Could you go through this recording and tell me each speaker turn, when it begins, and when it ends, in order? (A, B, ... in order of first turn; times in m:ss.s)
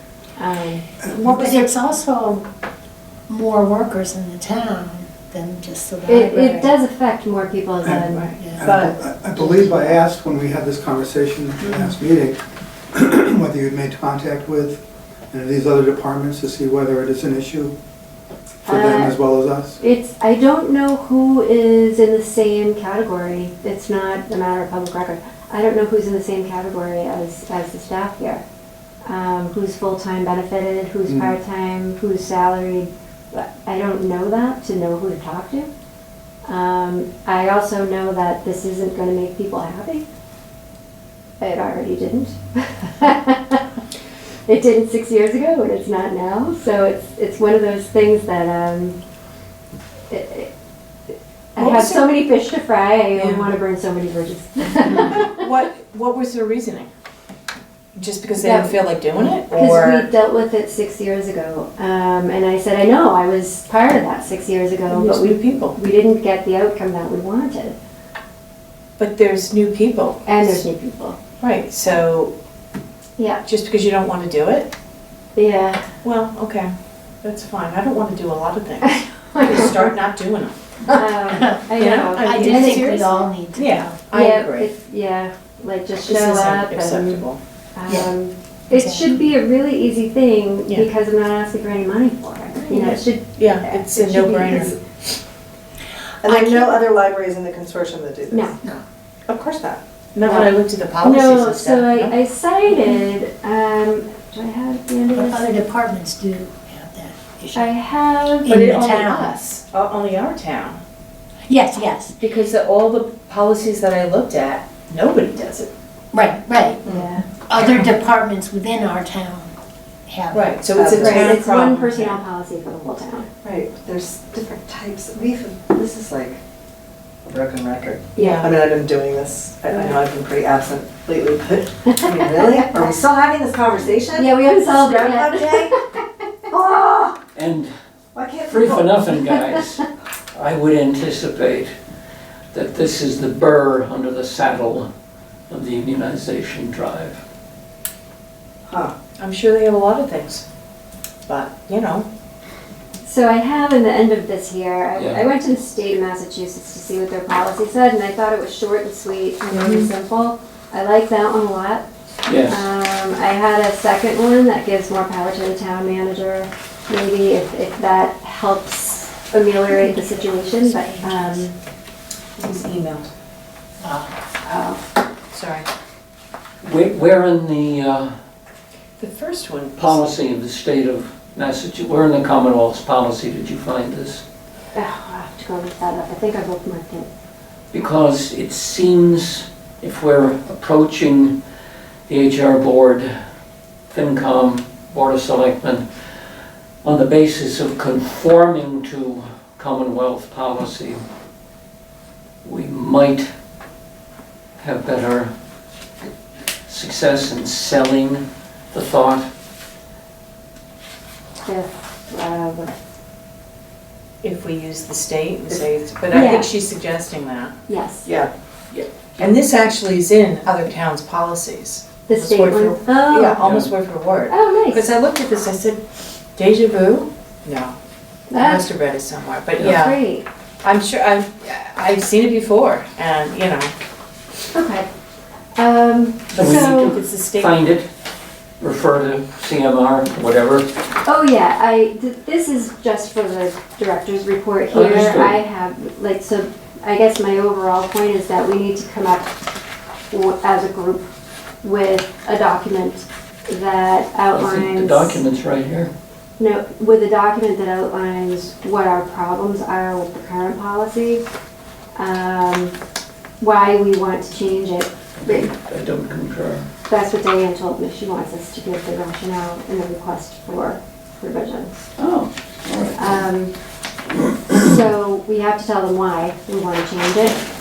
0:00.4-0:00.9 A
0:01.1-0:02.4 B
0:03.3-0:06.7 B
0:06.1-0:08.7 A
0:08.4-0:08.7 B
0:08.6-0:12.4 C
0:08.6-0:09.0 D
0:09.4-0:10.0 A
0:12.9-0:17.7 C
0:18.6-0:19.2 A
0:18.7-0:19.8 C
0:19.8-0:28.4 A
0:29.0-0:35.7 A
0:31.1-0:31.3 C
0:36.4-0:40.0 A
0:41.4-0:43.6 A
0:44.5-0:49.0 A
0:50.1-0:50.5 A
0:51.5-0:55.4 A
0:51.6-0:52.1 E
0:53.1-0:53.5 E
0:55.0-0:56.9 E
0:57.9-1:00.1 E
0:58.4-1:07.8 A
1:04.9-1:05.8 E
1:09.0-1:10.6 E
1:10.2-1:11.2 A
1:11.4-1:12.3 E
1:13.4-1:14.7 E
1:15.3-1:15.8 A
1:16.0-1:20.6 E
1:18.8-1:19.9 A
1:20.9-1:23.0 A
1:21.2-1:24.0 B
1:21.8-1:23.0 E
1:23.6-1:24.7 E
1:24.1-1:27.2 A
1:26.0-1:27.4 E
1:27.7-1:34.8 A
1:27.9-1:28.1 B
1:28.7-1:29.1 B
1:32.6-1:35.1 E
1:36.2-1:38.5 D
1:36.3-1:36.8 A
1:38.3-1:38.6 A
1:39.3-1:39.8 D
1:40.1-1:42.1 E
1:40.2-1:45.5 A
1:45.1-1:47.7 B
1:47.5-1:48.6 A
1:48.4-1:49.3 B
1:48.5-1:50.8 E
1:51.4-1:52.2 B
1:52.2-1:55.7 E
1:56.1-1:56.8 B
1:56.8-1:57.2 A
1:57.4-1:59.5 B
2:00.1-2:00.5 B
2:00.3-2:01.5 D
2:00.4-2:02.2 E
2:01.0-2:03.2 A
2:03.4-2:06.4 D
2:07.3-2:15.7 D
2:08.1-2:08.5 A
2:08.2-2:08.5 E
2:09.7-2:10.0 A
2:11.9-2:12.9 A
2:14.1-2:16.0 A
2:16.5-2:17.1 D
2:17.3-2:17.7 F
2:18.1-2:19.0 D
2:18.5-2:21.7 F
2:22.5-2:24.9 F
2:25.5-2:27.2 F
2:28.7-2:28.9 D
2:29.2-2:30.4 E
2:31.3-2:32.1 E
2:33.0-2:41.8 A
2:34.9-2:35.3 F
2:39.5-2:39.9 E
2:42.2-2:42.7 F
2:42.5-2:51.5 A
2:49.7-2:51.4 B
2:52.4-2:53.1 E
2:53.8-2:54.1 B
2:54.4-2:54.8 A
2:55.3-2:55.7 E
2:56.6-2:58.1 F
2:59.0-3:00.1 E
2:59.8-3:04.2 F
3:04.7-3:07.1 A
3:07.7-3:11.4 F
3:12.1-3:13.1 F
3:13.9-3:15.8 F
3:16.8-3:21.0 F
3:22.4-3:23.3 F
3:24.6-3:25.3 F
3:26.7-3:29.3 F
3:31.4-3:32.7 A
3:34.2-3:37.5 E
3:36.1-3:36.5 A
3:37.7-3:38.1 A
3:38.0-3:38.3 D
3:38.7-3:39.2 F
3:39.2-3:45.8 E
3:42.1-3:43.5 A
3:43.4-3:43.7 F
3:44.3-3:44.9 A
3:46.3-3:47.8 E
3:48.3-3:48.7 A
3:48.3-3:50.0 E
3:49.6-3:50.2 A
3:50.6-3:53.7 E
3:54.5-3:54.9 A
3:55.6-3:56.9 A
3:56.3-3:57.5 E
3:56.4-3:57.9 F
3:58.6-4:00.6 F
4:01.0-4:09.3 A
4:04.7-4:05.4 F
4:10.1-4:11.0 A
4:11.6-4:15.2 A
4:14.3-4:15.9 F
4:16.4-4:21.2 A
4:21.9-4:22.7 A
4:23.4-4:25.5 A
4:25.2-4:26.6 F
4:26.9-4:31.8 A
4:32.0-4:33.2 F
4:33.0-4:33.5 A
4:34.5-4:37.4 A